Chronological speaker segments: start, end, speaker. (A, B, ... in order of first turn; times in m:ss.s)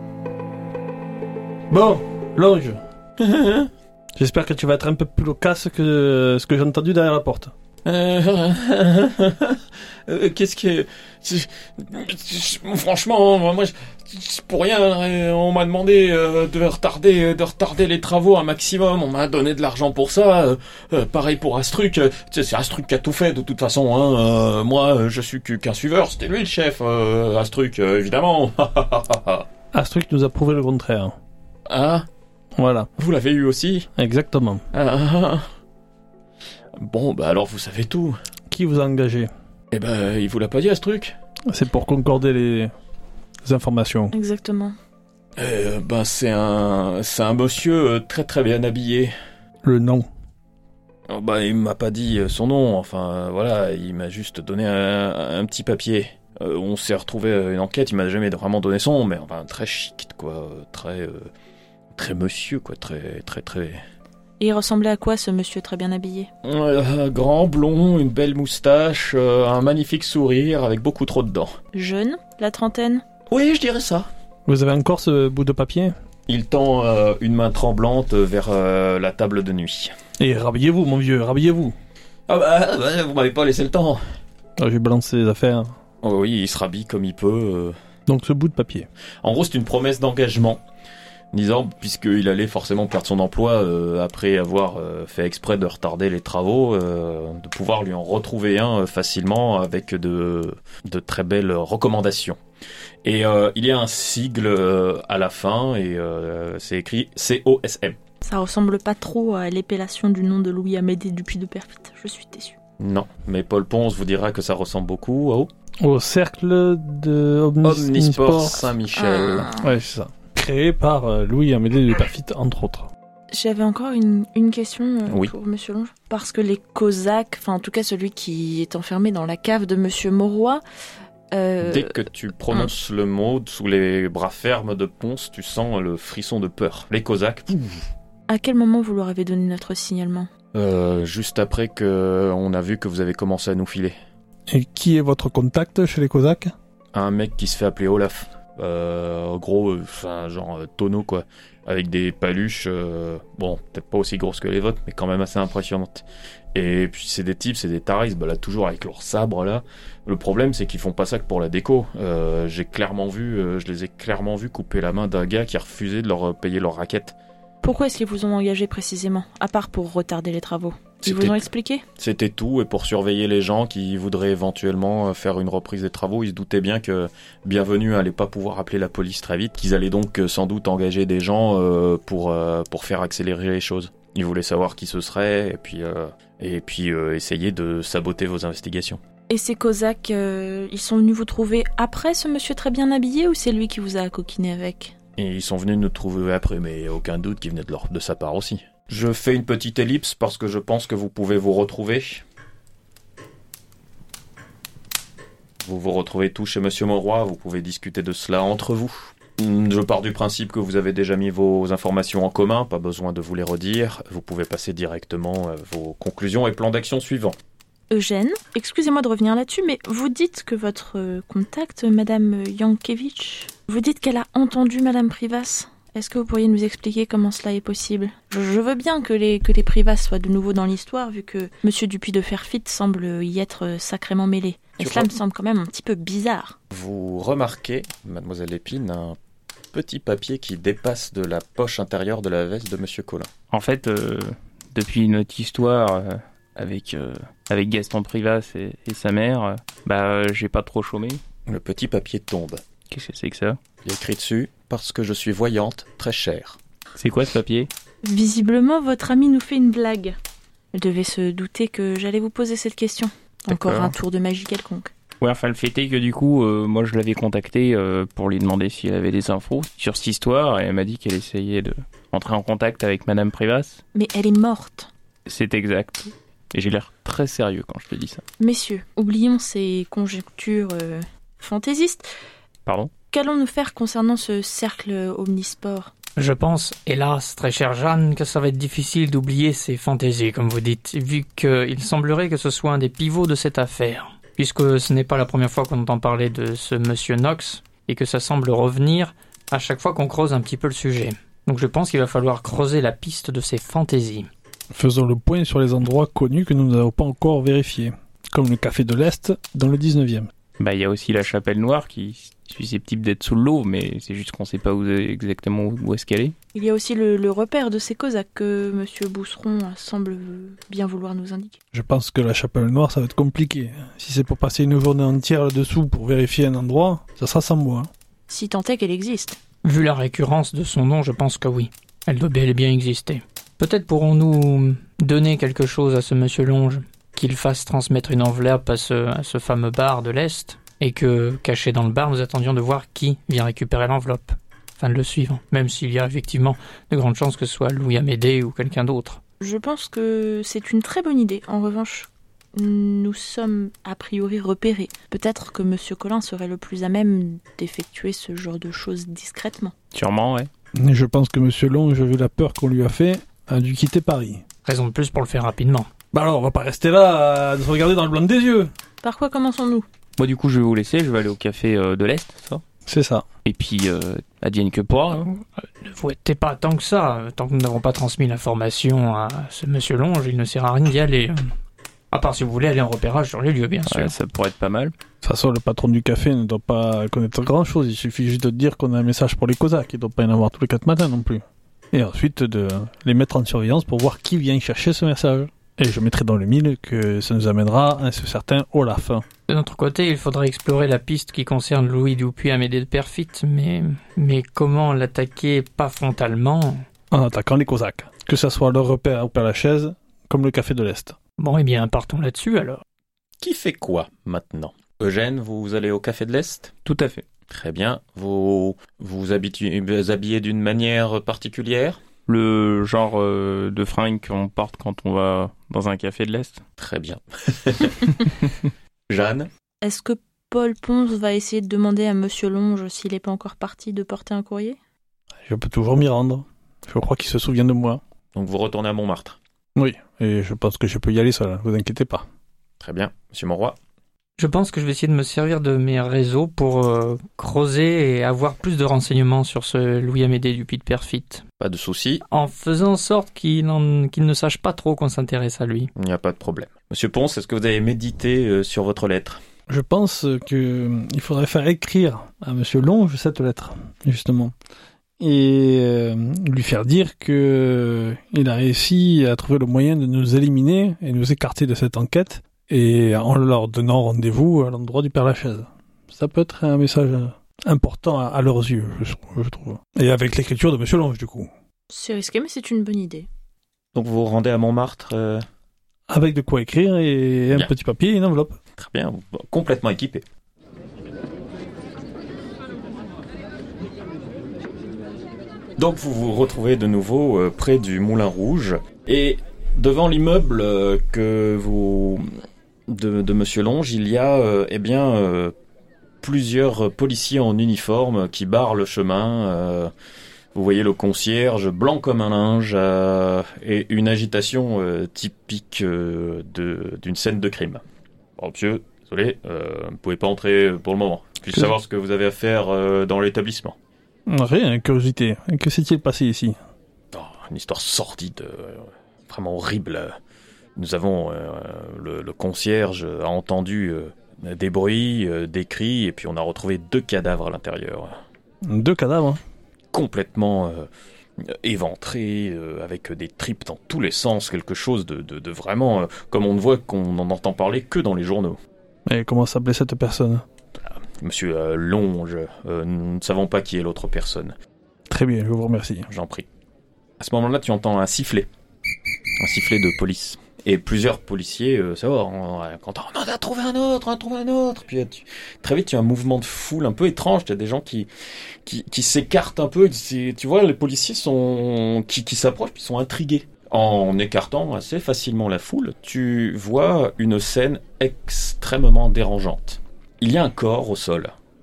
0:01.7-0:02.8 A
0:03.2-0:03.7 B
0:04.2-0:07.5 A
0:07.8-0:29.5 B
0:29.7-0:31.1 A
0:31.7-0:32.1 B
0:32.6-0:32.9 A
0:33.0-0:33.9 B
0:34.0-0:34.6 A
0:34.7-0:35.4 B
0:36.8-0:38.2 B
0:38.5-0:39.3 A
0:39.7-0:41.2 B
0:41.5-0:42.7 A
0:43.4-0:44.1 A
0:44.1-0:44.7 C
0:45.4-0:49.1 B
0:49.6-0:50.1 A
0:51.1-1:01.3 B
1:01.9-1:03.8 B
1:04.4-1:06.3 C
1:06.4-1:11.6 B
1:11.7-1:13.0 C
1:13.3-1:14.1 B
1:14.4-1:15.9 A
1:16.3-1:19.9 B
1:20.2-1:21.8 A
1:22.3-1:24.0 B
1:24.6-1:25.7 A
1:26.0-1:27.8 B
1:28.1-1:28.9 A
1:29.2-1:30.6 B
1:31.3-1:42.4 B
1:43.0-1:48.0 B
1:48.2-1:52.6 C
1:52.8-1:55.5 B
1:55.8-1:58.7 A
1:57.6-1:59.5 B
1:59.0-1:59.6 C
1:59.6-2:02.9 A
2:03.3-2:10.6 C
2:05.1-2:05.3 B
2:11.3-2:12.7 C
2:11.6-2:17.9 B
2:18.3-2:20.3 C
2:20.5-2:23.9 B
2:24.5-2:26.5 A
2:26.9-2:36.0 B
2:36.5-2:47.1 B
2:47.6-2:51.8 C
2:51.0-3:09.0 B
3:09.3-3:14.9 C
3:15.2-3:22.2 B
3:25.6-3:37.4 B
3:37.9-3:56.6 C
3:54.8-3:55.1 B
3:56.7-3:59.2 B
3:59.7-4:03.3 B
4:03.5-4:11.2 D
4:11.5-4:12.6 B
4:12.9-4:13.6 D
4:13.8-4:16.6 B
4:17.0-4:17.7 D
4:18.0-4:20.1 C
4:20.7-4:24.9 C
4:23.5-4:23.9 D
4:25.2-4:33.8 D
4:33.9-4:34.9 C
4:35.2-4:38.2 D
4:38.4-4:42.1 C
4:42.6-4:42.9 D
4:43.1-4:45.9 C
4:46.2-5:04.3 E
5:04.7-5:10.3 A
5:10.6-5:16.3 D
5:16.5-5:21.6 C
5:21.7-5:27.9 A
5:28.3-5:29.4 C
5:29.6-5:49.2 E
5:49.4-5:59.7 C
5:59.9-6:00.5 D
6:00.8-6:04.4 A
6:04.6-6:05.9 E
6:06.1-6:08.7 A
6:09.0-6:09.8 C
6:10.2-6:12.6 D
6:12.8-6:13.2 A
6:13.4-6:15.3 D
6:15.6-6:21.5 E
6:22.1-6:24.2 E
6:23.9-6:24.9 D
6:25.2-6:39.2 A
6:39.5-6:46.8 E
6:47.1-6:51.2 A
6:51.4-6:52.8 E
6:53.4-6:56.7 B
6:56.8-6:57.2 D
6:57.5-7:02.0 B
7:02.3-7:06.6 D
7:06.8-7:08.3 B
7:09.1-7:09.5 B
7:09.8-7:14.8 C
7:15.4-7:18.0 A
7:18.3-7:19.4 B
7:19.7-7:22.2 A
7:22.8-7:23.8 B
7:24.4-7:31.4 E
7:31.6-7:32.2 B
7:32.3-7:35.9 E
7:36.0-7:39.4 B
7:39.7-7:44.5 A
7:45.2-8:01.5 A
8:01.9-8:03.3 C
8:03.9-8:05.4 B
8:06.1-8:08.6 A
8:08.8-8:10.2 B
8:15.8-8:22.3 B
8:22.9-8:25.5 B
8:26.2-8:29.9 B
8:30.5-8:37.8 B
8:38.4-8:43.8 B
8:44.3-8:46.6 A
8:47.1-8:50.2 B
8:50.8-8:58.1 B
8:58.6-8:59.4 A
8:59.9-9:00.9 B
9:01.4-9:08.6 B
9:09.1-9:10.4 A
9:10.8-9:14.6 B
9:15.1-9:16.1 A
9:16.1-9:16.5 B
9:17.2-9:18.5 B
9:19.4-9:41.3 B